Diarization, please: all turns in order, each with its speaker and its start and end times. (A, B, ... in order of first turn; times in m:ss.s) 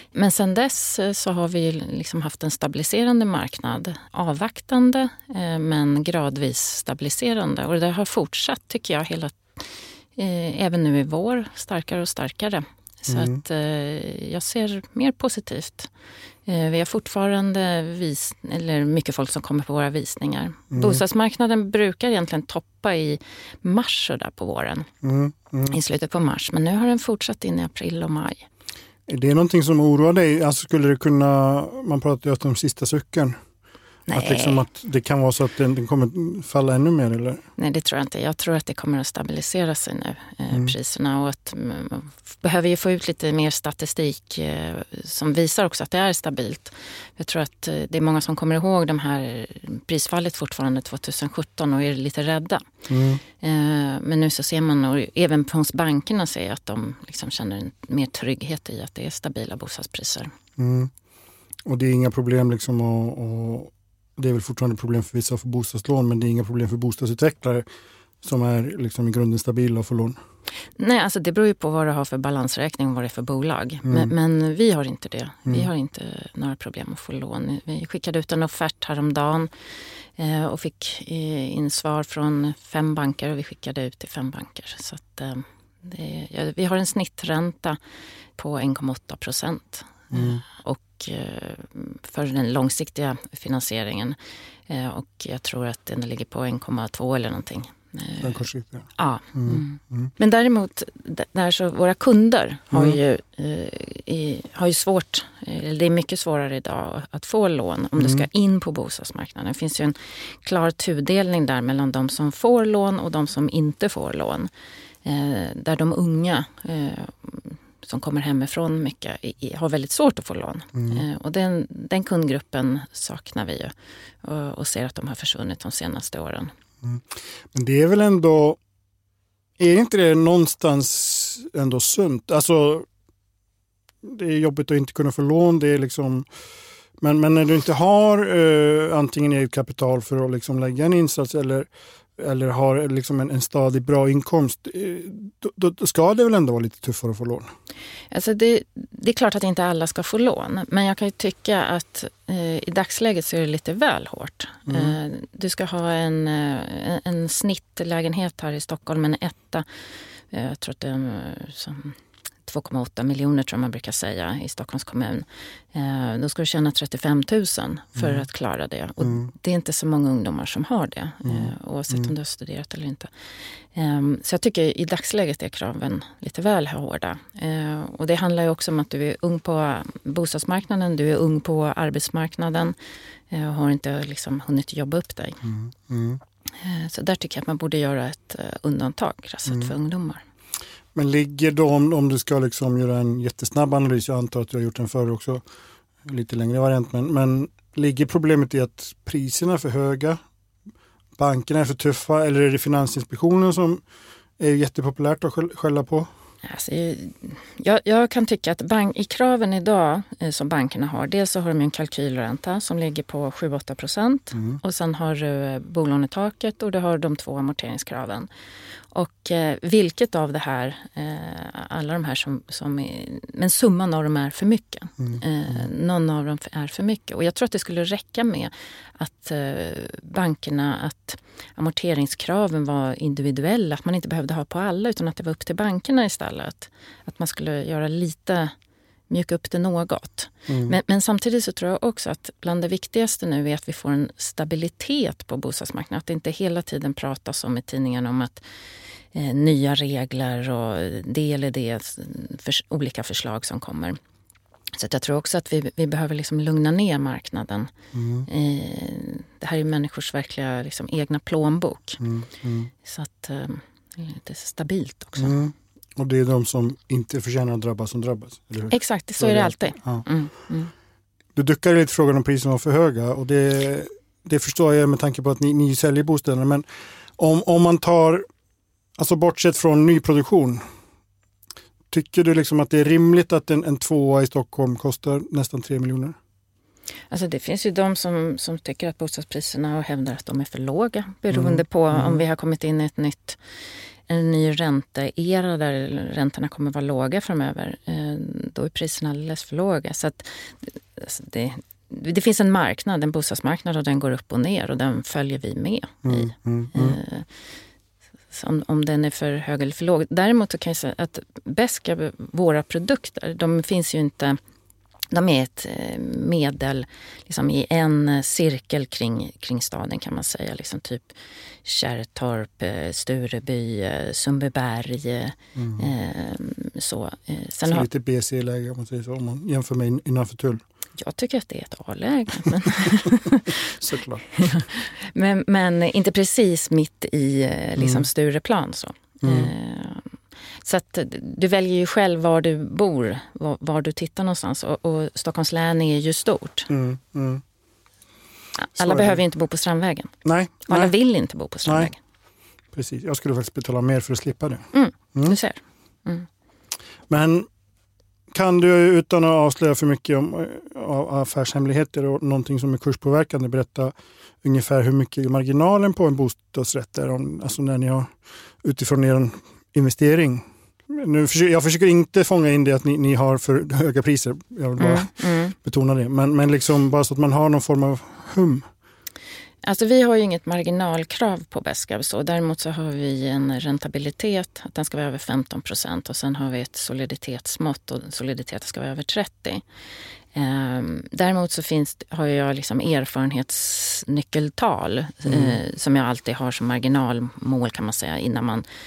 0:00.1-0:15.9 A
0:13.1-0:13.4 B
0:16.4-0:24.9 A
0:20.7-0:21.0 B
0:25.0-0:25.8 B
0:25.7-0:28.4 A
0:29.1-0:33.4 B
0:34.1-0:34.6 A
0:34.1-0:37.4 B
0:37.6-0:52.7 A
0:52.9-0:53.2 B
0:53.4-1:00.3 A
1:00.6-1:00.9 B
1:01.6-1:07.6 B
1:08.2-1:10.2 B
1:10.8-1:19.5 A
1:13.8-1:14.1 B
1:20.2-1:27.8 A
1:28.4-1:34.2 A
1:30.1-1:30.4 B
1:34.7-1:38.3 A
1:38.2-1:40.1 B
1:39.0-1:54.5 A
1:42.7-1:43.0 B
1:48.0-1:48.3 B
1:55.0-2:06.5 A
2:00.7-2:01.0 B
2:06.8-2:08.6 B
2:09.6-2:12.9 B
2:14.0-2:16.3 B
2:17.0-2:27.5 B
2:28.1-2:39.6 A
2:34.7-2:35.0 B
2:40.3-2:53.1 A
2:48.0-2:48.2 B
2:49.0-2:49.3 B
2:51.2-2:52.1 B
2:53.6-3:02.7 A
3:03.3-3:05.4 A
3:05.4-3:06.2 B
3:06.6-3:10.2 A
3:09.4-3:09.7 B
3:10.9-3:15.4 B
3:16.0-3:20.2 B
3:21.2-3:23.8 B
3:24.4-3:26.1 B
3:26.4-3:38.3 A
3:38.9-3:58.5 A
3:45.0-3:45.6 B
3:59.1-4:14.0 A
4:00.5-4:00.8 B
4:14.7-4:17.7 A
4:17.9-4:18.3 B
4:18.2-4:22.0 A
4:22.0-4:22.7 B
4:22.8-4:25.4 A
4:25.2-4:30.0 B
4:28.7-4:30.7 A
4:31.4-4:36.6 B
4:37.2-4:38.2 B
4:39.0-4:40.6 B
4:41.9-4:46.2 B
4:47.1-4:53.4 A
4:51.3-4:52.2 B
4:54.1-5:07.3 A
5:06.0-5:07.0 B
5:08.3-5:14.4 A
5:15.1-5:27.8 A
5:25.6-5:25.9 B
5:27.6-5:30.6 B
5:31.0-5:33.7 A
5:33.8-5:34.5 B
5:34.3-5:40.1 A
5:37.8-5:38.1 B
5:39.2-5:39.5 B
5:40.6-5:46.7 A
5:46.7-5:47.4 B
5:48.6-5:50.1 A
5:48.8-5:49.2 B
5:50.2-5:50.9 B
5:50.7-5:52.0 A
5:51.6-5:51.9 B
5:52.7-5:55.4 B
5:54.7-5:56.3 A
5:57.1-5:57.5 B
5:58.3-6:08.1 B
6:08.6-6:18.6 B
6:14.8-6:15.5 A
6:19.6-6:29.6 A
6:30.3-6:38.6 A
6:35.2-6:35.6 B